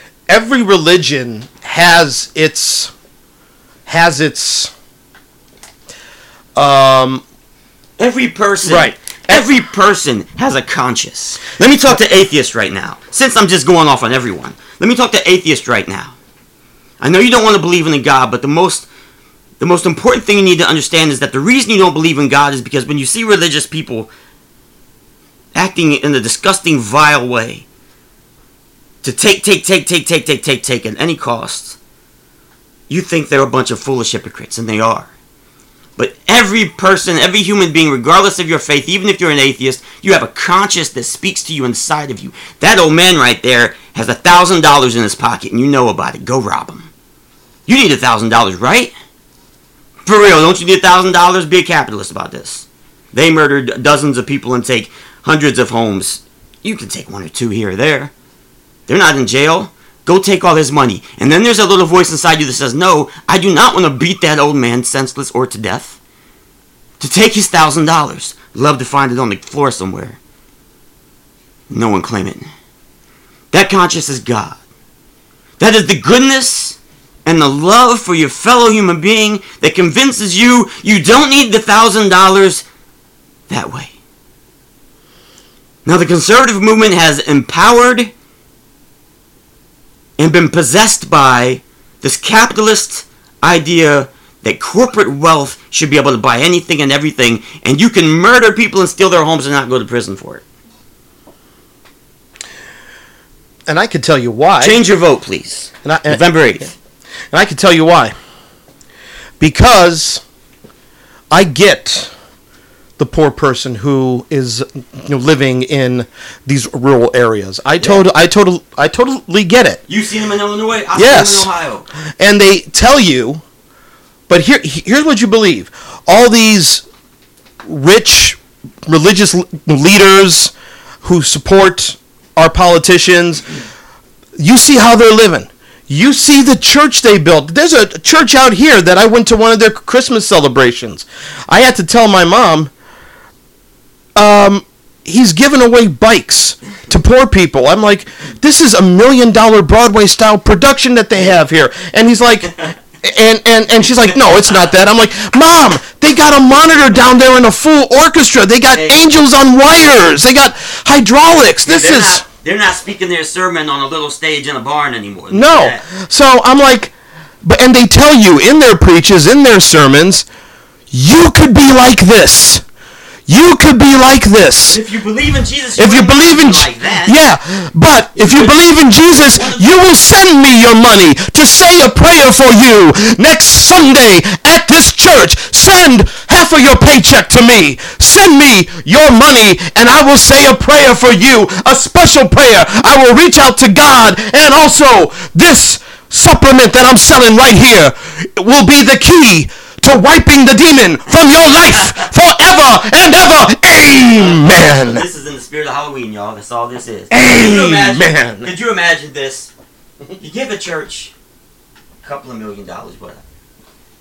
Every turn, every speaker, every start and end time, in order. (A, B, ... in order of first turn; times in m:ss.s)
0:00.3-0:02.9 A
0:03.8-0:04.7 A
0:06.5-0:07.2 A
0:08.0-0:16.2 B
0:08.6-0:09.4 A
0:17.0-0:18.9 B
0:19.6-0:24.1 B
0:25.5-0:27.6 B
0:29.0-0:31.8 B
0:32.9-0:35.1 B
0:36.0-0:46.9 B
0:47.7-0:48.9 B
0:50.0-0:58.1 B
0:58.9-1:06.0 B
1:07.0-1:10.2 B
1:11.7-1:12.5 B
1:13.5-1:14.6 B
1:15.6-1:22.6 B
1:23.5-1:23.9 B
1:25.8-1:28.1 B
1:30.2-1:40.4 B
1:43.7-1:44.8 A
1:44.6-1:46.7 B
1:45.8-1:46.2 A
1:47.3-1:48.1 A
1:49.4-1:50.2 A
1:51.3-1:52.1 A
1:53.0-1:59.8 A
1:57.8-1:58.0 B
1:59.9-2:01.8 B
2:01.0-2:01.5 A
2:02.2-2:03.4 A
2:04.3-2:06.8 A
2:07.6-2:13.4 A
2:14.4-2:22.7 A
2:24.1-2:42.2 A
2:38.7-2:39.0 B
2:41.6-2:45.8 B
2:45.3-2:50.2 A
2:50.9-2:52.6 A
2:53.3-2:54.8 A
2:54.7-2:57.2 B
2:55.8-3:25.0 A
2:58.2-2:59.7 B
3:24.2-3:29.5 B
3:27.1-3:28.5 A
3:30.2-3:31.1 B
3:32.0-3:33.2 B